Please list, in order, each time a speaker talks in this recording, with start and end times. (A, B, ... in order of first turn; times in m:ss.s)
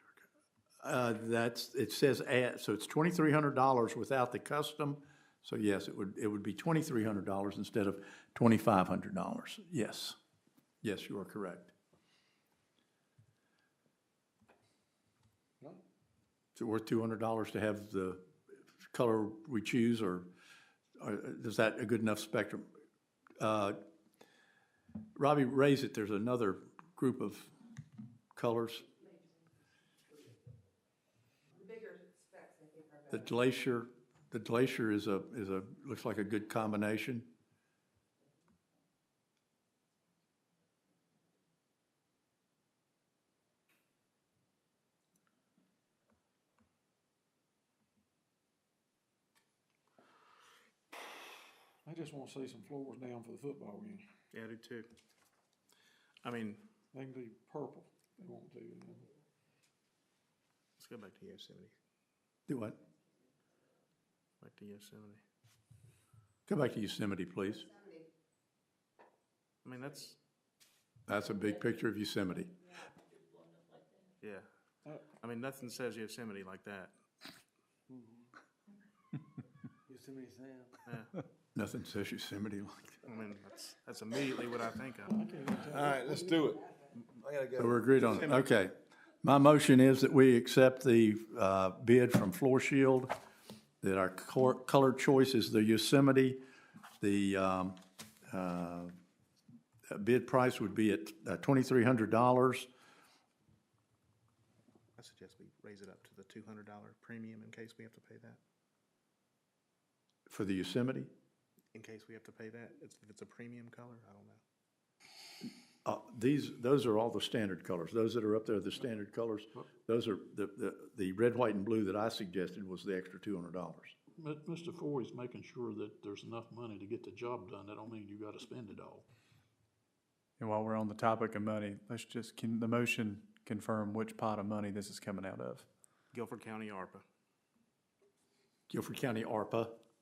0:00.8-0:10.2 A
0:10.8-0:11.7 A
0:16.6-0:18.3 A
0:18.8-0:20.3 A
0:21.0-0:22.7 A
0:23.4-0:23.8 A
0:25.2-0:27.5 A
0:28.3-0:28.8 A
0:31.5-0:33.3 B
0:33.1-0:37.3 A
0:51.8-0:54.1 C
0:54.3-0:54.9 D
0:56.2-0:56.6 D
0:56.9-0:59.1 C
1:00.8-1:01.7 D
1:02.5-1:02.8 A
1:04.4-1:05.2 D
1:06.5-1:07.7 A
1:07.5-1:08.1 B
1:09.6-1:10.2 D
1:11.1-1:12.5 A
1:15.2-1:16.9 D
1:21.5-1:23.0 A
1:23.0-1:25.1 D
1:25.1-1:26.5 C
1:25.6-1:28.3 E
1:27.5-1:33.1 A
1:33.8-1:36.4 A
1:37.0-1:38.9 A
1:39.9-1:42.7 A
1:45.0-1:48.4 D
1:50.3-1:51.1 A
1:51.7-1:54.4 D
1:55.8-2:04.0 A
2:04.2-2:09.0 F
2:10.4-2:15.7 G
2:16.1-2:17.0 D
2:18.7-2:19.8 A